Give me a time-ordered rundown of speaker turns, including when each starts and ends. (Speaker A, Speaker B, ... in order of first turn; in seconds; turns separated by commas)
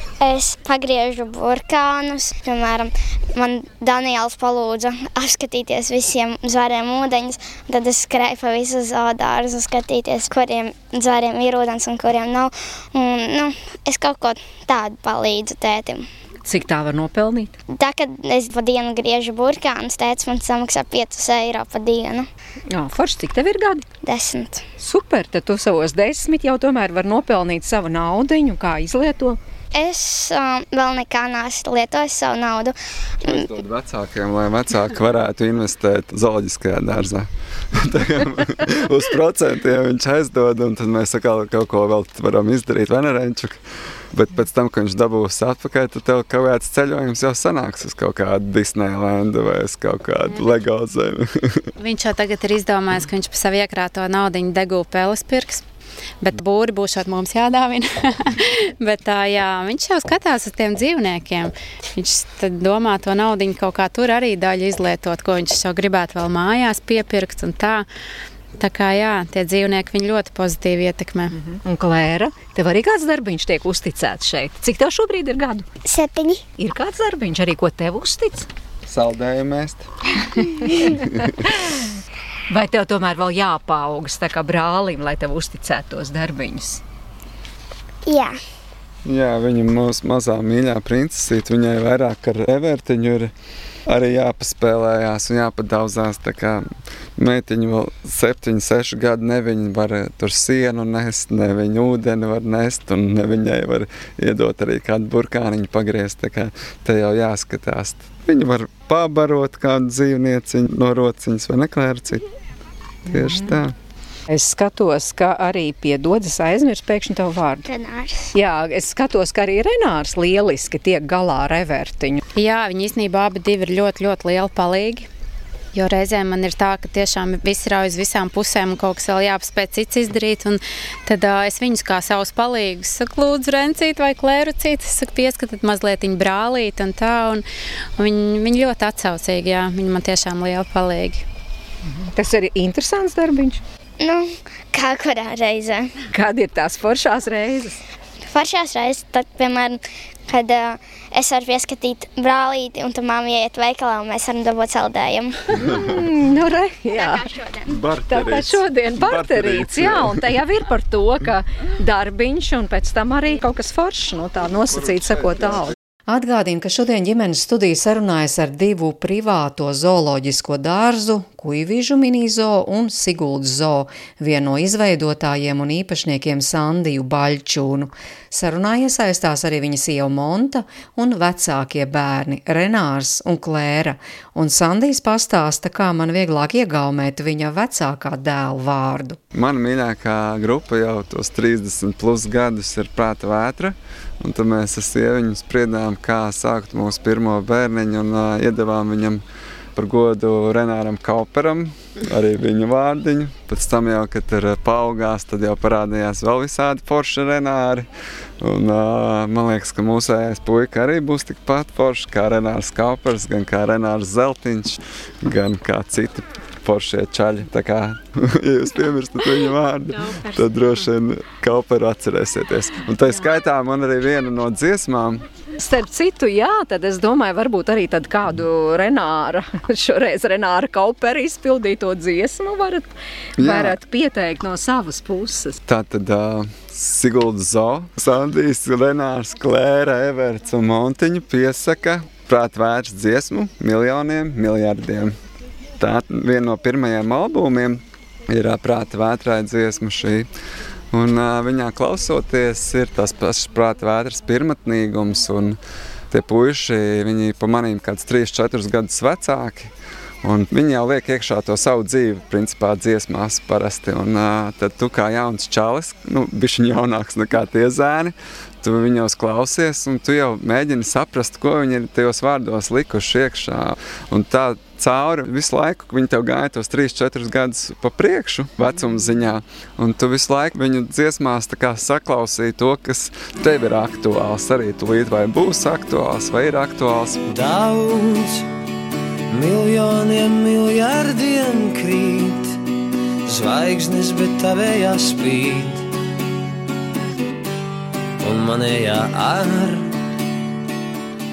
Speaker A: 0.2-16.1, Speaker B: 16.4-17.6, Speaker A: 17.7-22.3, Speaker B: 22.7-23.9, Speaker A: 24.0-24.7, Speaker B: 24.8-29.4, Speaker A: 29.7-33.3, Speaker C: 33.2-43.6, Speaker C: 44.1-51.7, Speaker D: 51.8-55.6, Speaker D: 56.2-67.8, Speaker D: 68.6-71.3, Speaker B: 71.4-75.7, Speaker A: 75.8-76.4, Speaker B: 76.6-78.5, Speaker C: 78.9-79.9, Speaker B: 80.4-81.9, Speaker C: 80.9-81.3, Speaker B: 82.5-86.8, Speaker A: 88.1-88.4, Speaker C: 89.0-93.3, Speaker C: 93.9-96.7, Speaker C: 97.2-112.2, Speaker C: 113.1-113.8, Speaker B: 113.1-113.6, Speaker B: 114.3-117.7, Speaker A: 117.7-118.3, Speaker B: 118.3-122.2, Speaker D: 122.4-125.1, Speaker D: 125.7-137.4, Speaker D: 138.0-141.2, Speaker B: 141.8-143.6, Speaker A: 144.0-145.9, Speaker B: 146.1-147.8, Speaker A: 148.3-155.6, Speaker B: 155.6-157.4, Speaker A: 157.0-157.7, Speaker C: 157.7-160.4, Speaker B: 158.1-189.2, Speaker C: 165.4-165.7, Speaker C: 189.3-199.2, Speaker C: 199.8-207.9, Speaker C: 208.4-225.2, Speaker B: 225.6-235.6, Speaker C: 233.4-233.8, Speaker C: 235.7-245.2, Speaker C: 245.8-250.3, Speaker C: 250.9-255.6, Speaker C: 256.1-259.7, Speaker C: 260.2-287.3, Speaker E: 287.3-288.5, Speaker E: 289.3-292.6, Speaker E: 293.3-295.9, Speaker E: 298.2-300.0